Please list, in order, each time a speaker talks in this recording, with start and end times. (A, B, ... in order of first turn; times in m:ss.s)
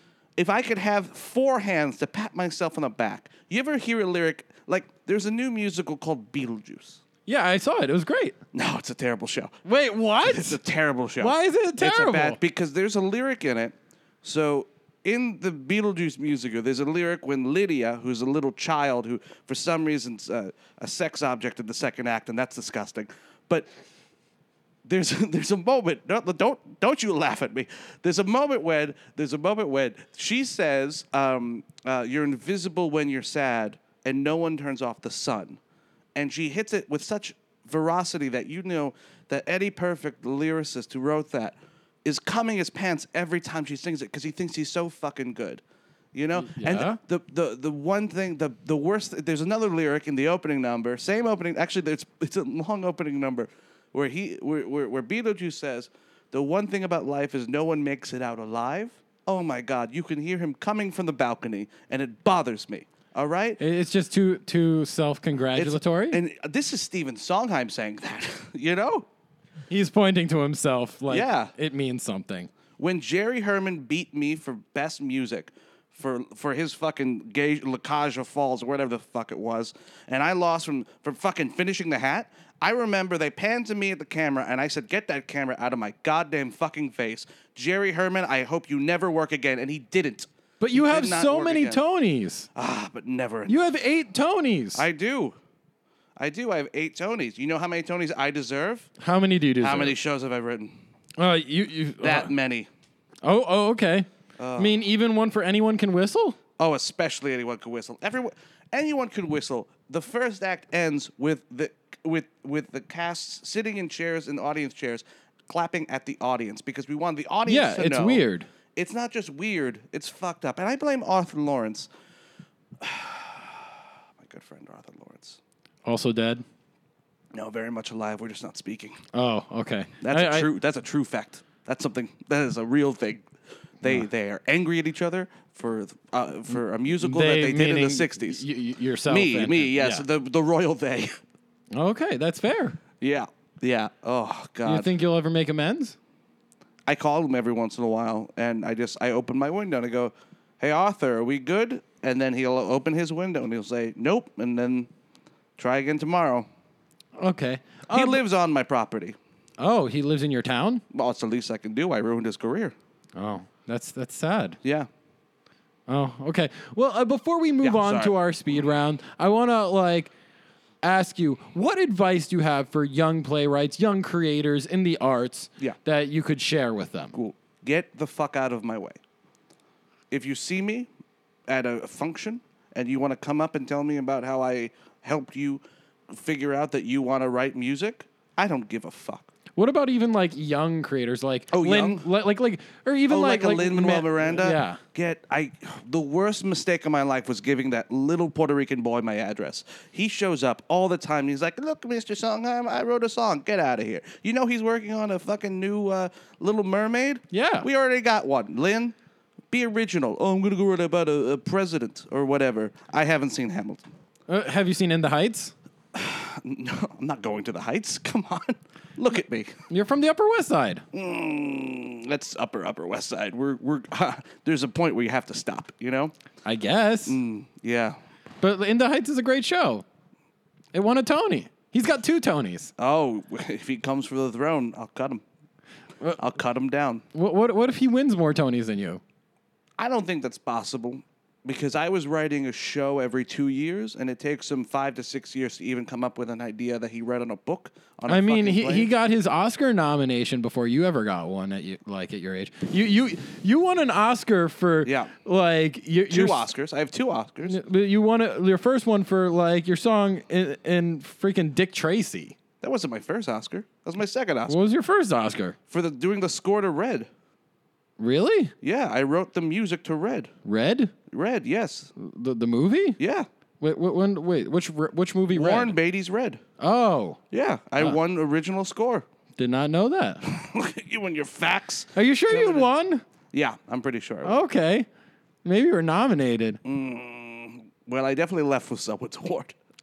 0:00.4-0:07.0 A
0:07.2-0:08.4 B
0:08.5-0:09.6 A
0:09.6-0:10.6 B
0:10.2-0:23.7 A
0:11.2-0:12.4 B
0:24.8-0:35.6 A
0:36.1-0:45.6 A
0:46.1-1:03.6 A
0:46.4-0:47.0 B
1:03.6-1:06.2 B
1:05.5-1:09.1 A
1:09.7-1:12.5 B
1:11.1-1:11.5 A
1:12.8-1:31.8 A
1:30.6-1:32.5 B
1:32.5-1:33.7 A
1:33.5-1:34.8 B
1:34.7-1:35.4 A
1:36.2-1:38.9 A
1:39.0-1:40.0 B
1:39.6-1:40.7 A
1:41.2-1:42.3 B
1:42.0-1:42.7 A
1:43.2-1:46.4 B
1:44.4-1:44.8 A
1:46.6-2:01.9 A
1:57.4-1:58.5 B
2:02.8-2:05.4 A
2:05.8-2:06.4 B
2:07.3-2:09.0 A
2:09.1-2:10.5 B
2:10.0-2:13.3 A
2:13.8-2:18.4 A
2:17.0-2:20.0 B
2:19.0-2:21.2 A
2:21.7-2:22.8 B
2:23.0-2:24.9 A
2:24.6-2:26.0 B
2:26.8-2:34.9 A
2:35.6-2:36.4 A
2:37.2-2:38.2 B
2:37.9-2:39.2 A
2:39.6-2:40.8 B
2:40.9-2:42.7 A
2:43.2-2:44.6 B
2:44.6-2:44.9 A
2:45.9-2:50.1 B
2:47.6-2:48.1 A
2:50.8-2:57.2 B
2:57.1-2:59.0 A
3:00.1-3:00.9 A
3:01.5-3:09.3 A
3:09.6-3:14.8 B
3:11.5-3:12.0 A
3:13.1-3:28.9 A
3:27.3-3:27.7 B
3:29.5-3:33.8 A
3:34.3-3:35.5 B
3:35.9-3:39.6 A
3:39.7-3:40.8 B
3:40.9-3:46.1 A
3:46.4-3:47.2 B
3:47.0-3:48.0 A
3:48.4-3:49.8 B
3:50.7-3:52.7 B
3:52.8-3:55.2 A
3:56.2-3:57.0 A
3:57.1-3:59.0 B
3:59.8-4:08.9 A
4:08.1-4:16.5 B
4:14.8-4:15.1 A
4:16.1-4:17.6 A
4:17.5-4:22.4 B
4:22.6-4:24.6 A
4:24.5-4:25.6 B
4:25.7-4:27.1 A
4:28.0-4:28.5 B
4:28.6-4:30.3 A
4:30.4-4:30.9 B
4:31.1-4:31.9 A
4:32.0-4:33.0 B
4:33.0-4:33.3 A
4:33.6-4:35.8 B
4:35.3-4:36.4 A
4:36.6-4:37.2 B
4:37.3-4:39.0 A
4:39.4-4:40.2 B
4:40.2-4:42.7 A
4:41.9-4:43.0 B
4:43.3-4:44.4 A
4:44.2-4:44.9 B
4:45.4-4:46.6 B
4:46.6-4:49.5 A